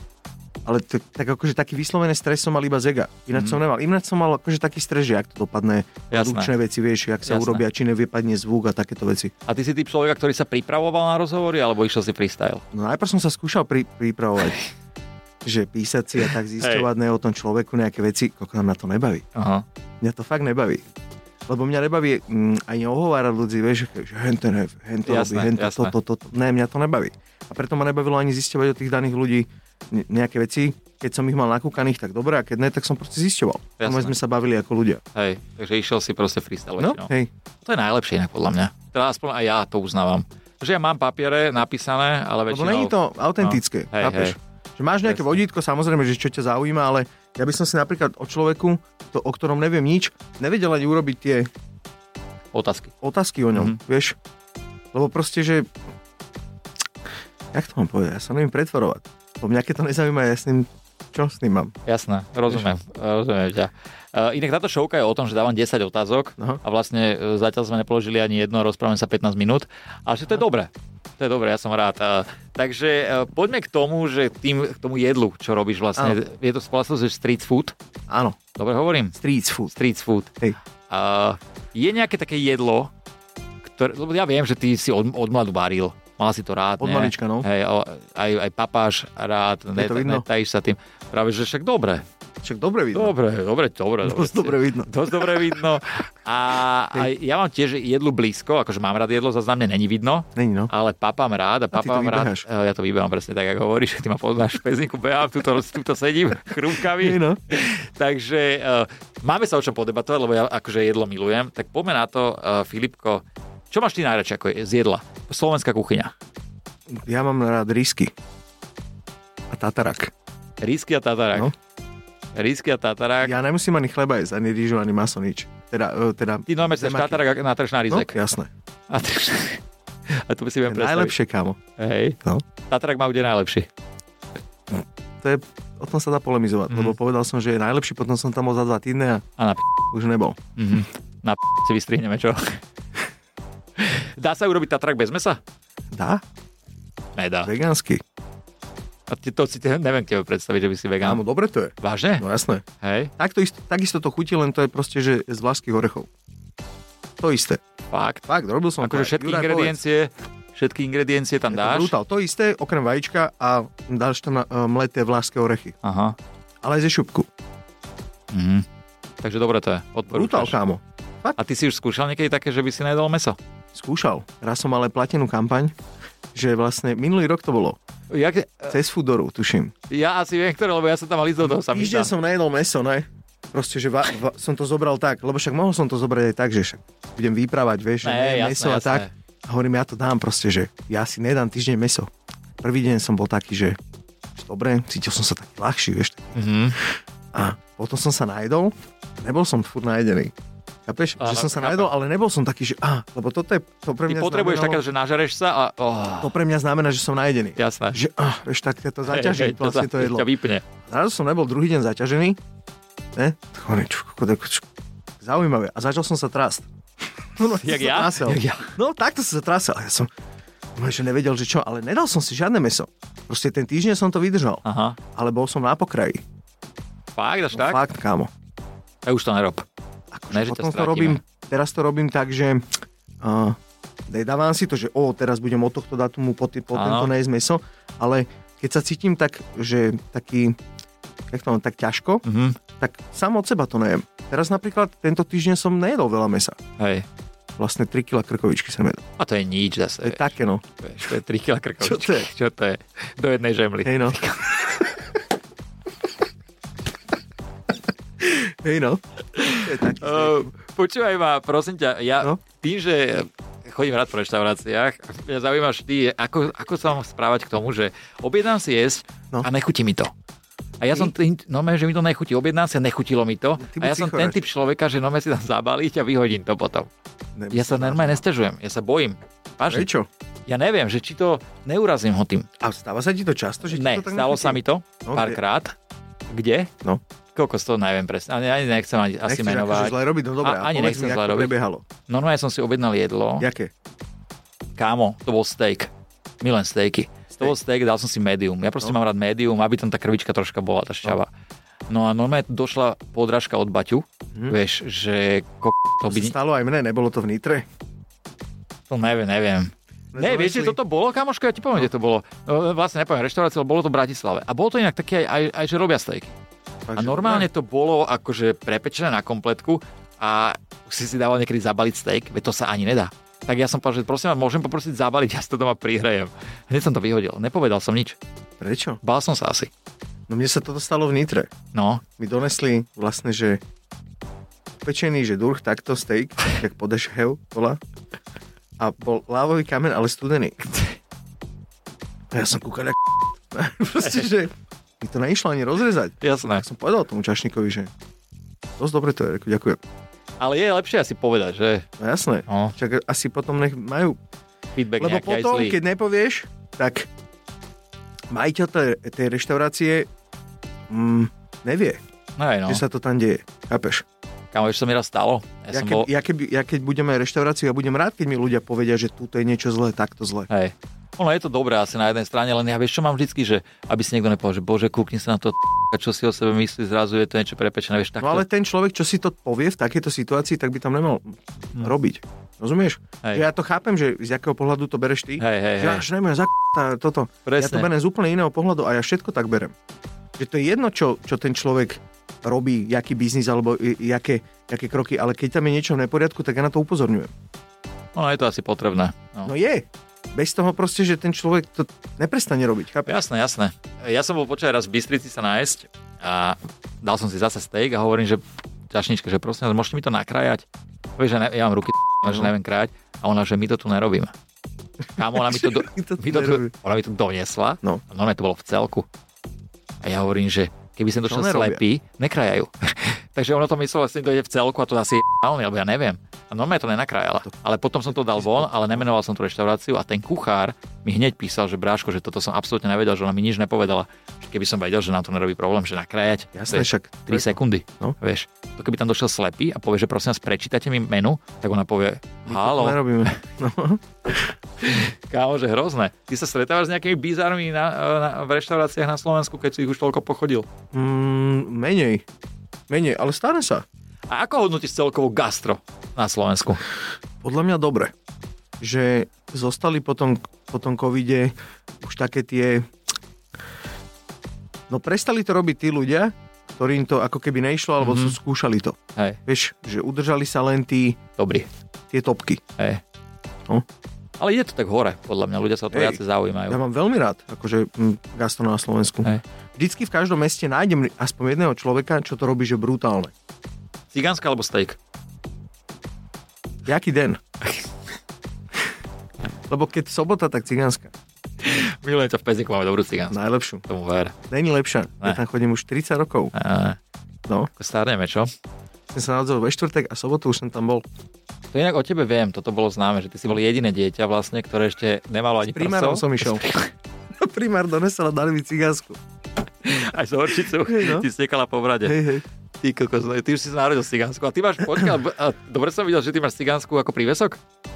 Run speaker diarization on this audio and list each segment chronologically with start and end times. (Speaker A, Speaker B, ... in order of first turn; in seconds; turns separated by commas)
Speaker A: 0.6-9.3, Speaker B: 3.3-3.6, Speaker B: 6.1-6.5, Speaker B: 7.2-7.6, Speaker B: 9.4-12.6, Speaker A: 12.7-14.6, Speaker A: 15.4-19.2, Speaker B: 16.6-16.9, Speaker B: 19.3-19.6, Speaker A: 20.0-20.8, Speaker A: 21.5-35.0, Speaker B: 25.0-25.9, Speaker B: 33.8-34.2, Speaker B: 35.1-37.1, Speaker A: 36.8-37.3, Speaker B: 37.6-44.3, Speaker A: 42.5-51.5, Speaker B: 45.0-45.3, Speaker B: 52.5-52.9, Speaker A: 53.0-54.1, Speaker A: 54.9-55.7, Speaker A: 57.5-61.7, Speaker B: 61.9-77.7, Speaker A: 78.1-78.4, Speaker B: 78.5-79.2, Speaker A: 79.2-79.7, Speaker B: 79.7-80.3, Speaker B: 80.9-82.9, Speaker B: 83.6-92.0, Speaker A: 86.8-87.5, Speaker A: 89.8-90.2, Speaker A: 92.4-93.1, Speaker B: 92.9-116.1, Speaker A: 94.0-95.5, Speaker A: 100.3-100.7, Speaker A: 101.7-102.5, Speaker A: 107.0-107.4, Speaker A: 116.9-118.1, Speaker A: 119.5-120.1, Speaker B: 120.6-121.5, Speaker B: 122.3-123.3, Speaker A: 123.2-127.2, Speaker B: 126.5-128.1, Speaker A: 127.9-128.5, Speaker B: 128.9-131.1, Speaker A: 130.7-131.6, Speaker B: 131.8-133.7, Speaker A: 134.7-139.2, Speaker B: 136.7-136.9, Speaker B: 139.4-139.6, Speaker A: 139.9-140.4, Speaker B: 140.6-142.6, Speaker B: 143.8-145.4, Speaker A: 145.9-146.2, Speaker B: 147.2-147.5, Speaker A: 147.4-148.0, Speaker B: 149.1-151.2, Speaker A: 151.0-152.6, Speaker B: 151.8-152.2, Speaker B: 152.8-153.1, Speaker A: 153.2-156.1, Speaker A: 157.2-157.6, Speaker B: 157.9-158.2, Speaker A: 158.3-159.8, Speaker B: 158.8-161.9, Speaker A: 161.5-165.8, Speaker B: 165.8-166.2, Speaker A: 166.6-167.3, Speaker B: 168.3-168.7, Speaker B: 169.2-170.6, Speaker A: 170.1-171.4, Speaker B: 171.4-173.4, Speaker A: 173.7-175.7, Speaker A: 176.3-177.8, Speaker B: 178.1-178.8, Speaker A: 178.7-179.7, Speaker B: 179.9-182.1, Speaker A: 181.4-193.8, Speaker B: 188.0-189.1, Speaker A: 194.3-196.4, Speaker B: 196.3-196.8, Speaker A: 197.3-200.3, Speaker A: 200.9-204.8, Speaker B: 201.2-201.9, Speaker B: 204.1-206.3, Speaker A: 206.2-210.3, Speaker B: 207.6-208.0, Speaker B: 209.1-210.6, Speaker A: 210.8-212.4, Speaker A: 213.1-214.6, Speaker A: 215.2-216.7, Speaker A: 217.3-220.1, Speaker B: 217.4-218.7, Speaker A: 220.8-226.2, Speaker B: 224.6-225.0, Speaker B: 227.1-227.8, Speaker A: 227.5-228.3, Speaker B: 229.0-229.7, Speaker A: 230.1-240.6, Speaker B: 230.3-231.2, Speaker B: 236.7-237.1, Speaker A: 241.3-242.2, Speaker B: 242.2-242.6, Speaker A: 242.8-246.6, Speaker B: 246.8-247.1, Speaker A: 247.6-249.0, Speaker B: 249.2-254.6, Speaker A: 250.0-250.6, Speaker A: 251.8-252.3, Speaker A: 253.8-254.2, Speaker A: 258.2-259.0, Speaker B: 259.3-270.1, Speaker A: 259.5-260.5, Speaker B: 270.8-276.9, Speaker A: 273.6-274.4, Speaker A: 277.4-278.2, Speaker B: 277.5-279.9, Speaker A: 279.7-280.1, Speaker B: 280.5-282.5, Speaker A: 282.6-285.4, Speaker B: 283.7-285.7, Speaker B: 286.3-286.7, Speaker B: 287.3-291.5, Speaker A: 289.2-291.9, Speaker B: 292.1-293.5, Speaker A: 293.4-293.7, Speaker B: 294.8-301.3, Speaker A: 297.3-297.6, Speaker B: 301.9-306.3, Speaker A: 306.1-307.6, Speaker B: 308.9-316.3, Speaker A: 310.1-310.8, Speaker A: 316.9-317.5, Speaker B: 316.9-328.2, Speaker A: 328.6-329.0, Speaker B: 329.0-329.7, Speaker A: 330.3-331.5, Speaker B: 331.7-332.0, Speaker A: 332.2-333.6, Speaker A: 334.8-337.8, Speaker A: 338.8-340.6, Speaker A: 342.3-347.9, Speaker B: 346.2-346.6, Speaker A: 348.8-349.8, Speaker B: 350.4-351.9, Speaker A: 352.0-354.2, Speaker B: 352.5-352.7, Speaker B: 354.8-355.8, Speaker A: 355.0-357.1, Speaker A: 358.3-360.1, Speaker A: 360.9-362.0, Speaker B: 362.4-362.8, Speaker A: 362.6-364.0, Speaker B: 364.5-366.1, Speaker A: 365.7-370.5, Speaker B: 370.5-378.4, Speaker A: 378.2-389.7, Speaker B: 385.4-386.0, Speaker B: 387.4-387.9, Speaker A: 390.4-397.3, Speaker B: 398.1-399.5, Speaker A: 399.4-403.2, Speaker B: 403.1-410.6, Speaker B: 411.2-414.3, Speaker A: 412.2-412.5, Speaker B: 415.2-419.1, Speaker A: 415.2-416.7, Speaker B: 420.0-443.3, Speaker A: 421.2-421.8, Speaker A: 428.1-429.0, Speaker A: 436.5-438.1, Speaker A: 442.4-444.4, Speaker B: 444.8-450.7, Speaker A: 450.9-452.2, Speaker A: 452.9-453.8, Speaker B: 454.3-456.8, Speaker A: 457.4-458.1, Speaker A: 458.8-462.9, Speaker A: 464.9-471.2, Speaker B: 468.0-468.4, Speaker B: 471.4-471.7, Speaker A: 472.1-472.6, Speaker B: 472.8-473.0, Speaker B: 474.4-476.8, Speaker A: 475.9-483.3, Speaker B: 484.1-485.0, Speaker A: 486.9-487.4, Speaker A: 489.7-491.1, Speaker B: 491.6-494.4, Speaker A: 493.3-493.8, Speaker A: 494.5-496.5, Speaker B: 496.5-497.0, Speaker B: 497.8-498.5, Speaker A: 499.1-501.0, Speaker B: 501.7-506.9, Speaker A: 505.7-506.6, Speaker A: 507.4-509.2, Speaker B: 509.8-512.2, Speaker A: 510.7-511.3, Speaker A: 512.0-512.4, Speaker B: 512.8-517.6